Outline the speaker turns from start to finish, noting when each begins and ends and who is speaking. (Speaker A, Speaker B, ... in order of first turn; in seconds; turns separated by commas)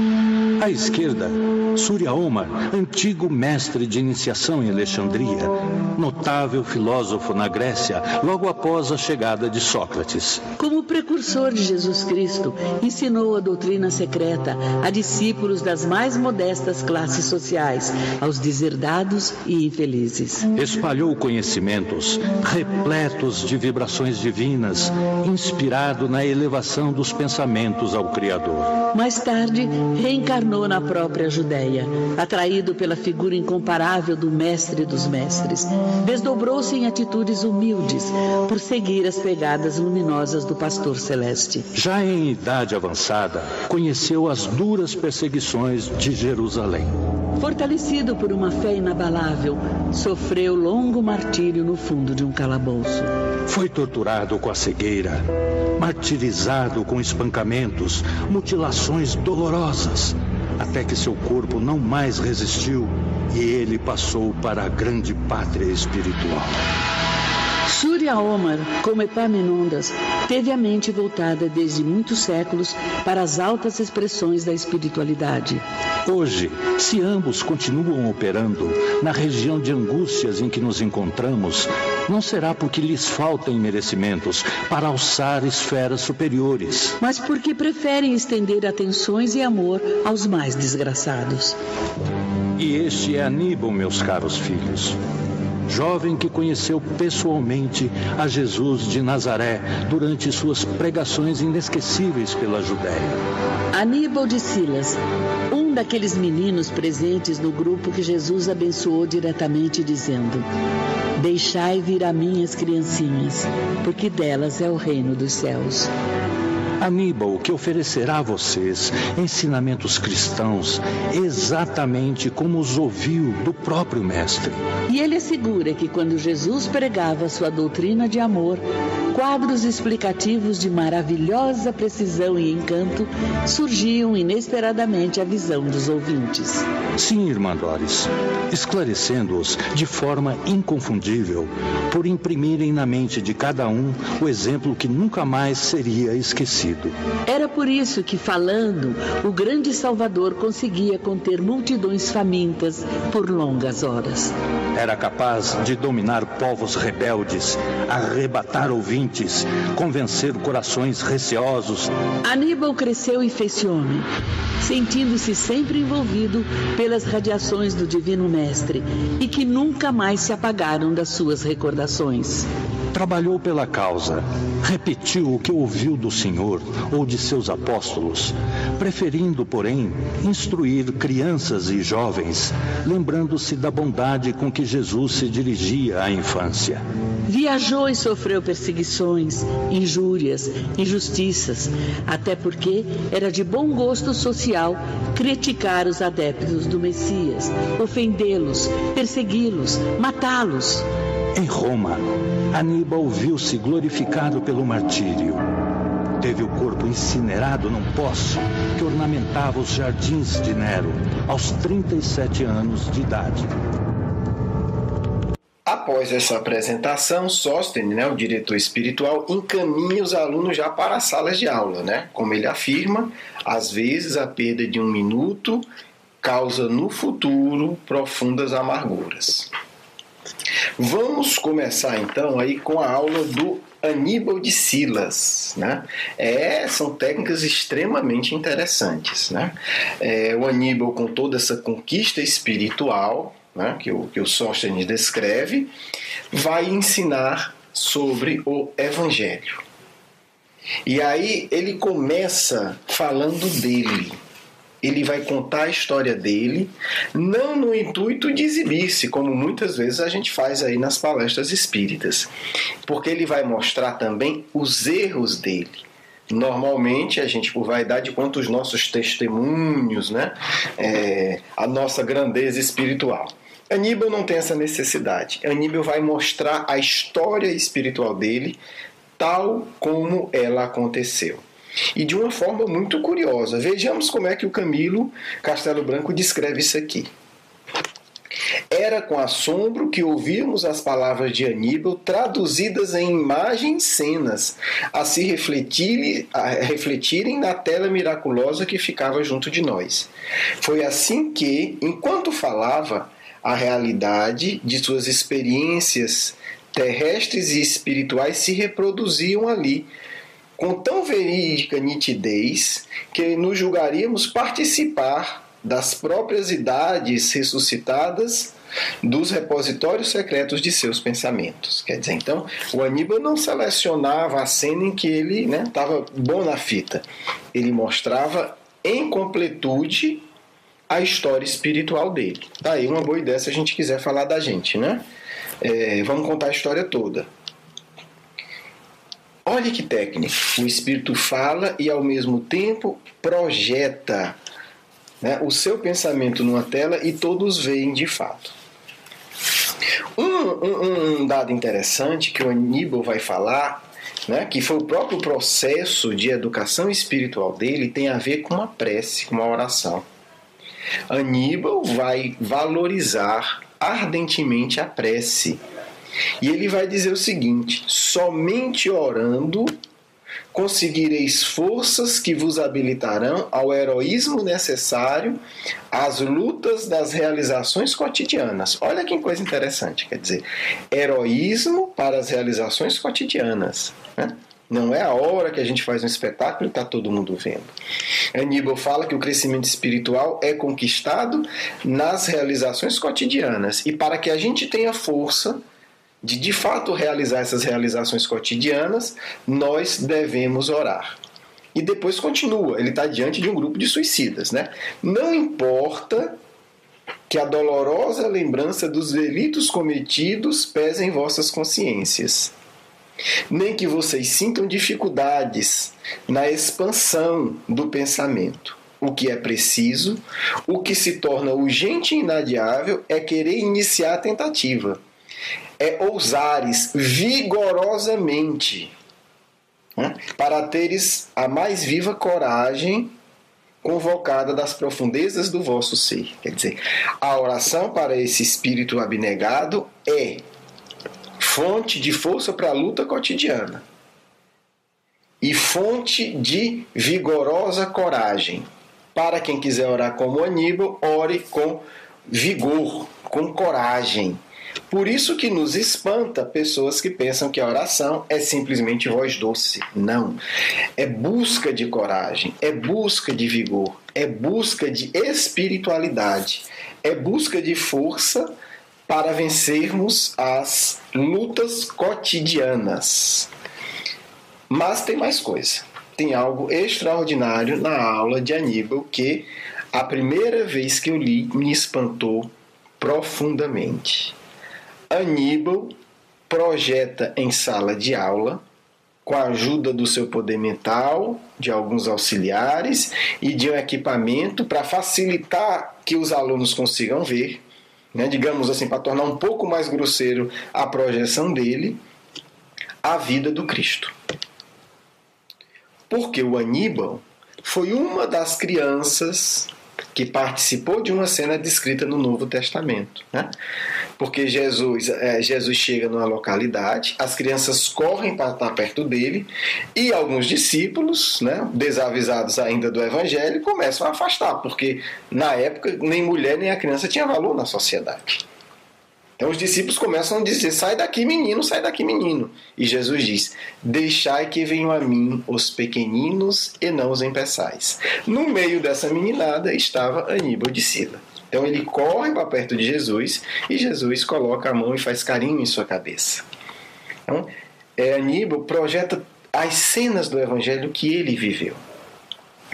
Speaker A: 0.6-10.4, Speaker B: 10.6-20.5, Speaker A: 20.5-28.8, Speaker B: 28.9-41.7, Speaker A: 41.8-46.9, Speaker B: 47.4-53.1, Speaker A: 53.5-66.6, Speaker B: 67.7-75.6, Speaker A: 76.0-87.0, Speaker B: 87.0-91.6, Speaker A: 92.6-95.0, Speaker A: 95.7-103.2, Speaker B: 103.7-110.5, Speaker B: 111.2-115.9, Speaker A: 116.8-124.6, Speaker B: 124.9-136.7, Speaker A: 137.0-146.9, Speaker B: 147.3-154.3, Speaker A: 154.8-161.9, Speaker B: 162.2-164.1, Speaker B: 164.6-172.5, Speaker A: 172.9-186.8, Speaker B: 187.3-200.9, Speaker A: 201.3-205.5, Speaker A: 206.2-213.5, Speaker C: 215.7-225.7, Speaker C: 226.2-229.5, Speaker C: 230.8-245.7, Speaker C: 246.3-249.6, Speaker C: 250.9-254.2, Speaker C: 254.8-262.3, Speaker C: 262.9-278.6, Speaker C: 279.2-281.4, Speaker C: 281.9-287.1, Speaker C: 288.7-300.1, Speaker C: 300.6-309.9, Speaker C: 310.6-330.2, Speaker C: 330.9-335.0, Speaker C: 335.6-337.3, Speaker C: 339.4-344.4, Speaker C: 345.2-348.6, Speaker C: 350.2-360.1, Speaker C: 361.1-365.6, Speaker C: 366.4-369.7, Speaker C: 370.5-375.4, Speaker C: 375.9-387.8, Speaker C: 388.3-395.6, Speaker C: 396.2-401.2, Speaker C: 401.7-406.4, Speaker C: 407.3-412.5, Speaker C: 413.5-425.0, Speaker C: 425.8-428.9, Speaker C: 429.9-433.1, Speaker C: 433.8-440.4, Speaker C: 441.4-443.9, Speaker C: 445.4-460.4, Speaker C: 461.0-468.6, Speaker C: 469.1-473.5, Speaker C: 474.7-484.4, Speaker C: 485.1-485.9, Speaker C: 486.5-488.6, Speaker C: 489.2-502.0, Speaker C: 503.0-504.1, Speaker C: 506.1-513.5, Speaker C: 514.2-528.5, Speaker C: 529.4-546.4, Speaker C: 547.3-551.8